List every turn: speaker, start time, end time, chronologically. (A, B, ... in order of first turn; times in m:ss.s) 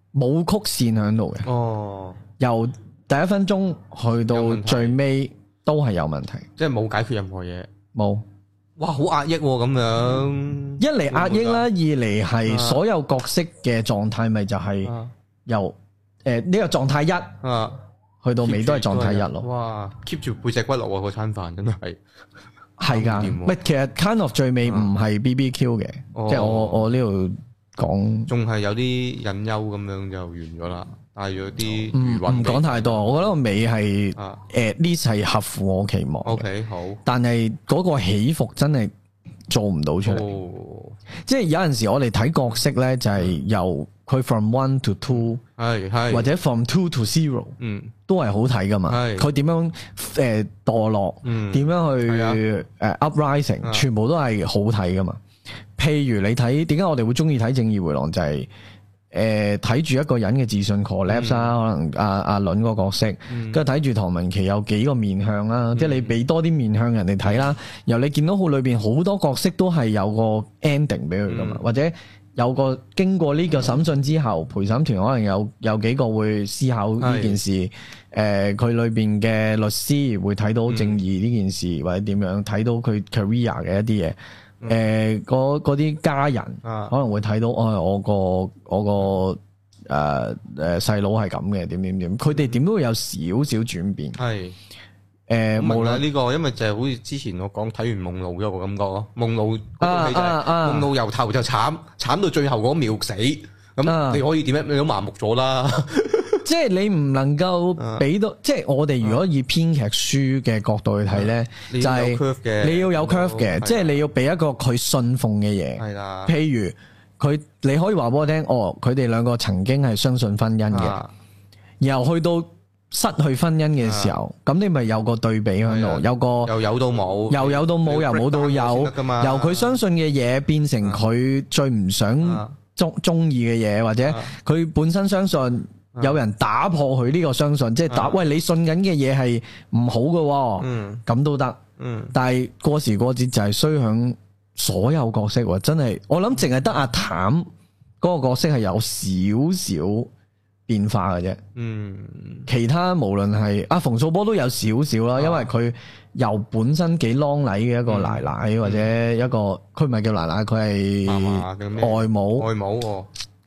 0:00.1-0:01.5 A
0:01.4-0:02.2 B
0:02.4-0:06.4 A
0:04.3-0:05.0 B
0:06.6-0:07.7 B
0:07.9-0:08.2 A
0:08.8-0:11.7 B
0:10.8-0:14.9 A
0:12.4-0:12.8 B
0:14.8-0:15.1 B
0:15.4-0:17.3 A
0:17.4-0:17.8 B
0:18.2-0:19.5 A
0:18.4-0:22.0 B
0:22.8-0:28.3 A
0:22.9-0:23.6 B
0:24.6-0:24.9 B
0:26.1-0:26.8 B
0:28.3-0:33.2 B
0:31.9-0:36.4 A
0:36.2-0:37.0 B
0:37.0-0:38.9 A
0:39.5-0:40.3 A
0:40.0-0:41.0 B
0:41.2-0:45.4 A
0:45.2-0:46.3 B
0:46.1-0:47.5 A
0:47.6-0:47.9 B
0:48.1-0:55.2 A
0:48.9-0:49.3 B
0:51.2-0:52.4 B
0:55.8-0:58.5 A
0:59.1-1:34.2 A
1:01.1-1:01.5 B
1:03.3-1:03.6 B
1:05.7-1:06.2 B
1:11.3-1:11.6 B
1:17.0-1:17.4 B
1:20.7-1:21.0 B
1:26.6-1:26.9 B
1:32.3-1:32.6 B
1:34.2-1:34.6 B
1:35.3-1:36.0 A
1:35.6-1:46.4 B
1:39.8-1:40.9 A
1:43.8-1:44.2 A
1:46.4-2:01.0 A
1:47.8-1:48.0 B
1:51.1-1:53.9 B
1:55.8-1:56.4 B
2:00.7-2:01.1 B
2:01.8-2:06.6 A
2:03.8-2:04.2 B
2:05.6-2:09.8 B
2:07.3-2:21.6 A
2:12.2-2:12.5 B
2:14.0-2:14.3 B
2:17.9-2:18.2 B
2:20.6-2:21.0 B
2:21.8-2:22.1 B
2:22.1-2:27.5 A
2:28.0-2:30.1 A
2:30.7-2:31.4 A
2:31.6-2:32.5 B
2:32.5-2:42.5 A
2:35.2-2:35.5 B
2:37.9-2:38.9 B
2:41.0-2:43.1 B